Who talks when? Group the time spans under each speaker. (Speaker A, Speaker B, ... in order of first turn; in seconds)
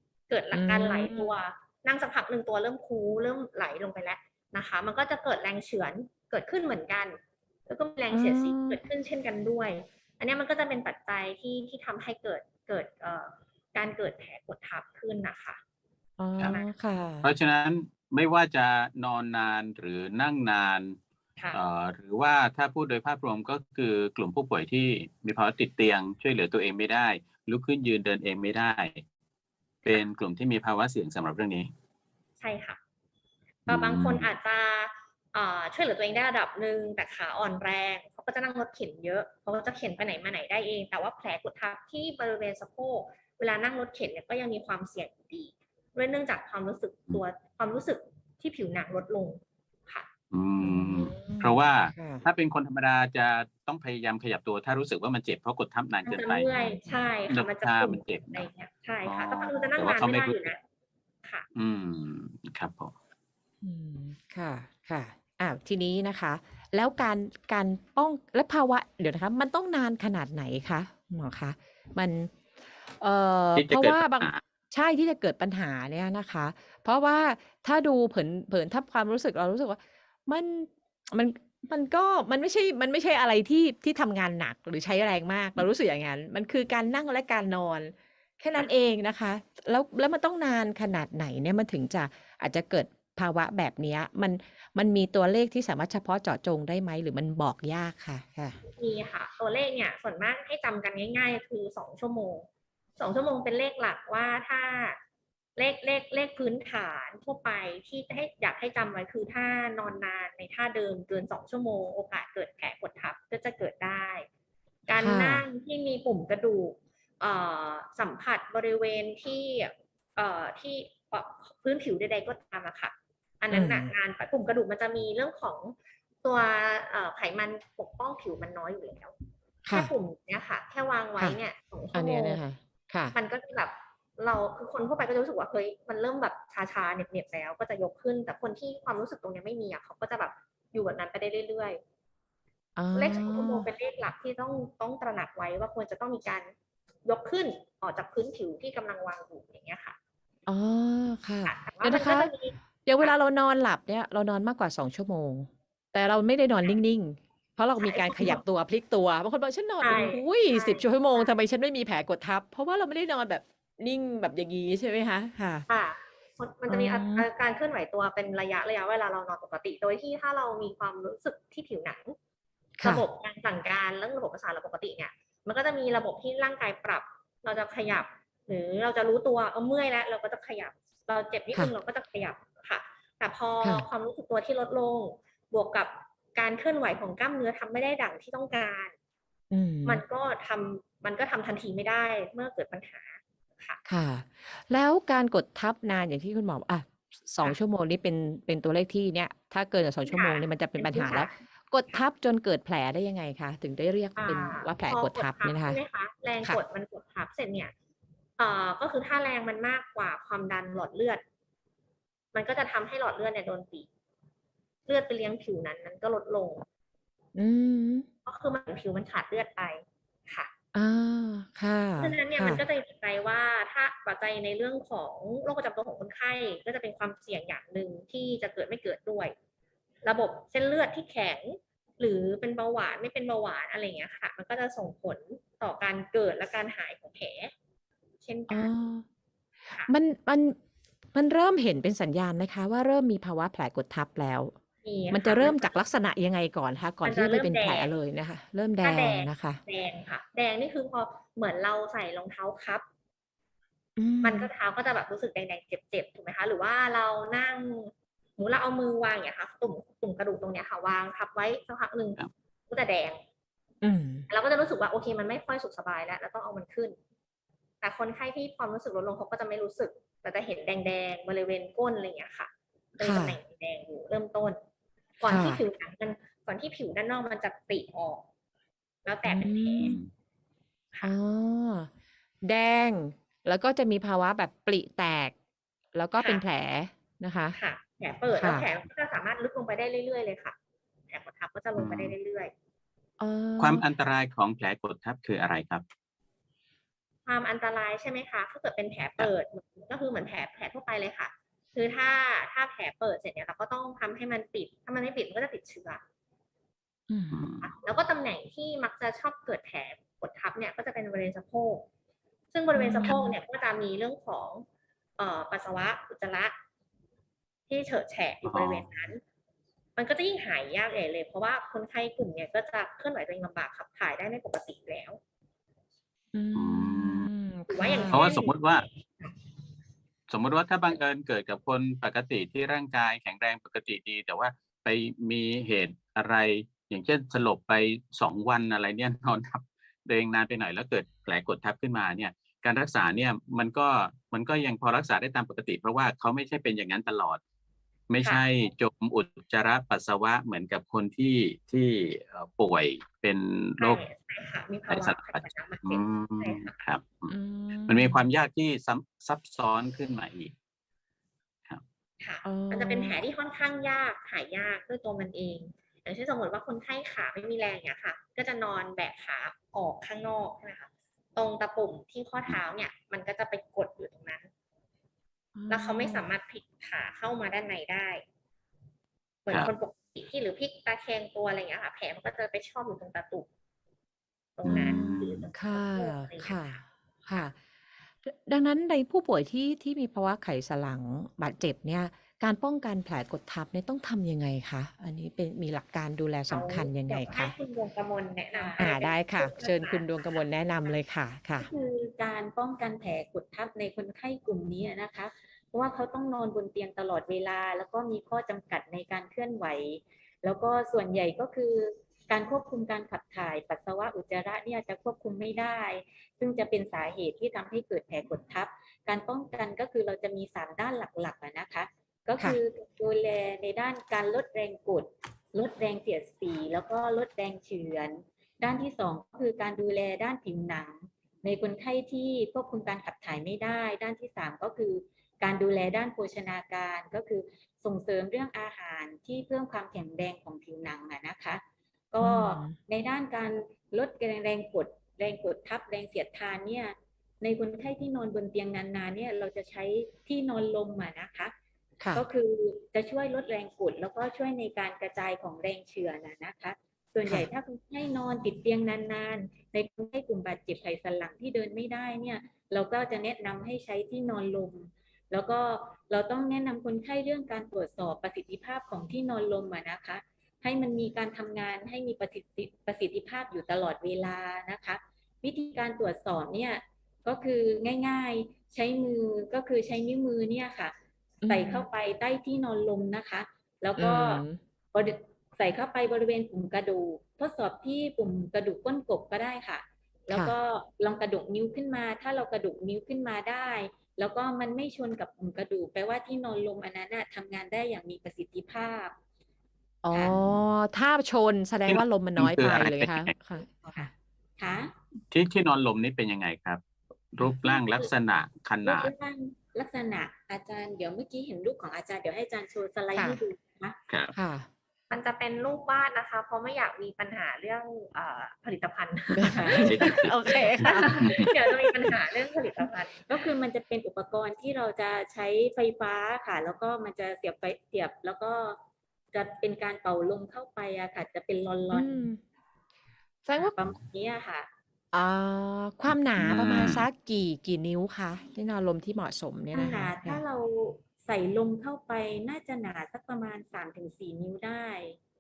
Speaker A: 0.3-15.6, 16.4-16.7, 32.4-32.8, 33.7-50.1, 56.0-60.6, 98.6-102.5, 103.0-105.0, 105.6-114.3, 114.9-129.1, 129.7-132.4, 133.1-141.8, 142.9-146.5, 147.1-150.0, 151.5-153.1, 157.8-158.4, 159.8-161.3, 165.7-172.2, 172.8-188.9, 189.8-193.8, 200.1-201.3, 204.2-207.7, 208.4-211.2, 212.3-213.9, 214.9-216.6, 218.3-220.5, 222.0-229.3, 230.0-237.5, 238.2-238.7, 244.8-245.7, 247.0-247.9, 248.8-252.8, 254.2-263.2, 264.3-267.0, 267.8-274.6, 275.2-278.2, 279.1-280.0, 287.6-290.6, 291.1-292.5, 297.3-306.0, 307.6-311.9, 312.5-314.6, 315.2-316.5, 317.7-319.2, 320.0-325.2, 327.7-329.3, 353.8-356.8, 362.2-374.5, 375.7-378.2, 379.5-383.5, 384.6-386.7, 396.5-400.9, 515.1-523.3
Speaker B: 0.5-1.4, 8.1-8.8, 16.2-17.3, 50.6-52.2, 56.5-57.0, 63.6-72.3, 72.9-98.6, 115.0-115.5, 123.5-123.9, 129.7-129.9, 131.9-133.2, 142.8-143.7, 150.5-152.3, 152.8-165.7, 166.7-167.3, 172.8-173.1, 189.5-190.0, 193.9-205.8, 217.3-218.1, 220.7-222.6, 238.5-239.1, 239.9-240.6, 241.1-244.6, 245.1-249.6, 254.0-254.5, 263.8-264.3, 273.0-273.4, 275.3-275.6, 279.3-280.0, 281.0-281.9, 282.4-285.3, 285.9-287.6, 288.4-288.7, 293.2-293.9, 307.1-307.5, 312.7-313.4, 326.3-328.3, 357.3-358.2, 362.4-363.2, 375.5-376.3, 384.7-387.6, 388.2-397.6, 398.8-401.7, 442.2-442.8, 452.0-452.2, 481.4-481.9, 484.0-484.6, 500.0-504.1, 513.1-513.4, 514.3-514.7, 519.4-522.1, 531.9-532.4, 533.5-533.7, 535.1-540.4
Speaker C: 17.2-21.0, 21.5-29.0, 29.9-31.7, 33.7-34.3, 50.3-56.5, 57.3-58.5, 59.0-60.5, 61.5-62.9, 73.6-74.4, 279.8-280.1, 291.8-292.1, 293.6-295.8, 307.3-307.7, 318.4-318.9, 326.6-327.3, 328.1-328.9, 330.3-347.4, 348.1-354.0, 354.9-357.3, 357.9-360.5, 384.6-385.4, 501.9-503.3, 505.3-506.8, 507.3-509.1, 519.8-521.5, 536.4-537.1
Speaker D: 398.5-398.9, 401.6-441.6, 442.1-451.5, 452.1-480.9, 481.5-499.1, 500.1-500.4, 503.6-504.9, 507.6-508.1, 508.8-514.0, 519.5-519.9, 523.3-528.8, 529.3-532.3, 533.5-534.7, 539.7-545.2